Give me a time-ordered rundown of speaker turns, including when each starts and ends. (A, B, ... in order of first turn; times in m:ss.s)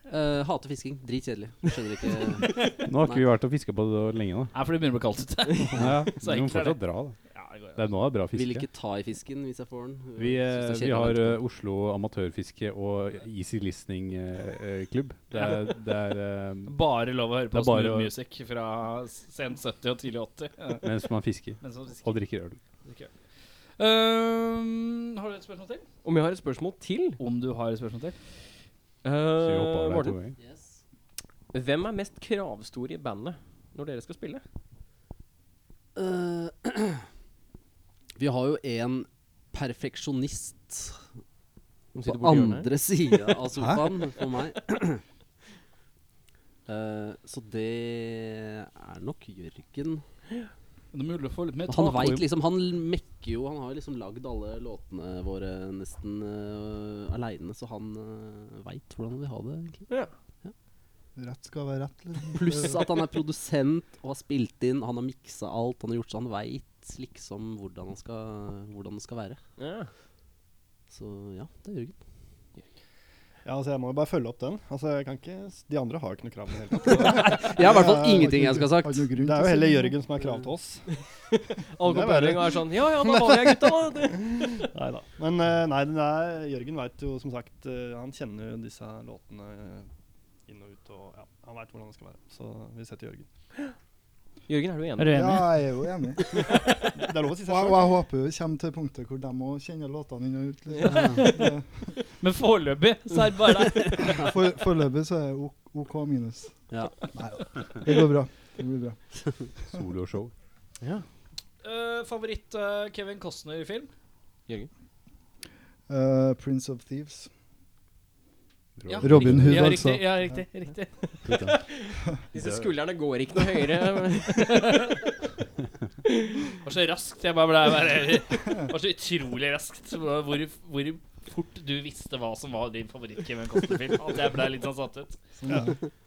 0:00.1-0:03.3 A
0:02.4-0:02.7 B
0:02.9-0:04.5 C
0:04.5-0:07.8 B
0:05.8-0:07.2 C
0:07.8-0:08.7 C
0:08.3-0:11.4 A
0:10.2-0:16.8 C
0:15.3-0:15.7 B
0:16.7-0:20.8 B
0:17.5-0:18.1 C
0:20.8-0:22.6 C
0:21.6-0:22.2 B
0:22.8-0:23.1 B
0:23.8-0:25.8 B
0:26.0-0:27.2 D
0:27.2-0:28.2 B
0:29.0-0:30.2 D
0:29.4-0:30.4 C
0:30.4-0:30.8 A
0:31.5-0:34.4 D
0:36.0-0:37.0 A
0:38.2-0:41.0 A
0:42.0-0:43.2 D
0:42.0-0:45.0 A
0:46.7-0:50.0 A
0:50.9-0:52.2 B
0:51.7-0:59.9 A
1:01.2-1:02.9 E
1:02.3-1:09.4 A
1:09.6-1:09.9 D
1:10.9-1:12.0 A
1:13.4-1:18.3 F
1:16.9-1:19.1 A
1:17.6-1:20.0 E
1:19.2-1:20.9 F
1:20.9-1:24.7 D
1:21.8-1:29.9 F
1:30.5-1:33.3 F
1:34.5-1:35.4 D
1:35.0-1:35.6 B
1:35.1-1:36.4 E
1:36.5-1:37.9 F
1:37.4-1:41.7 E
1:40.8-1:41.4 A
1:40.8-1:41.5 B
1:42.2-1:44.2 B
1:44.0-1:49.0 E
1:46.7-1:47.1 A
1:49.7-1:50.3 C
1:51.6-1:53.9 B
1:55.9-1:57.3 E
1:58.8-1:59.7 C
1:58.9-2:01.0 B
1:59.0-2:00.4 E
2:01.2-2:01.6 C
2:01.3-2:05.0 D
2:02.3-2:02.7 C
2:04.4-2:05.0 B
2:06.6-2:15.2 B
2:15.4-2:15.8 F
2:15.5-2:15.7 E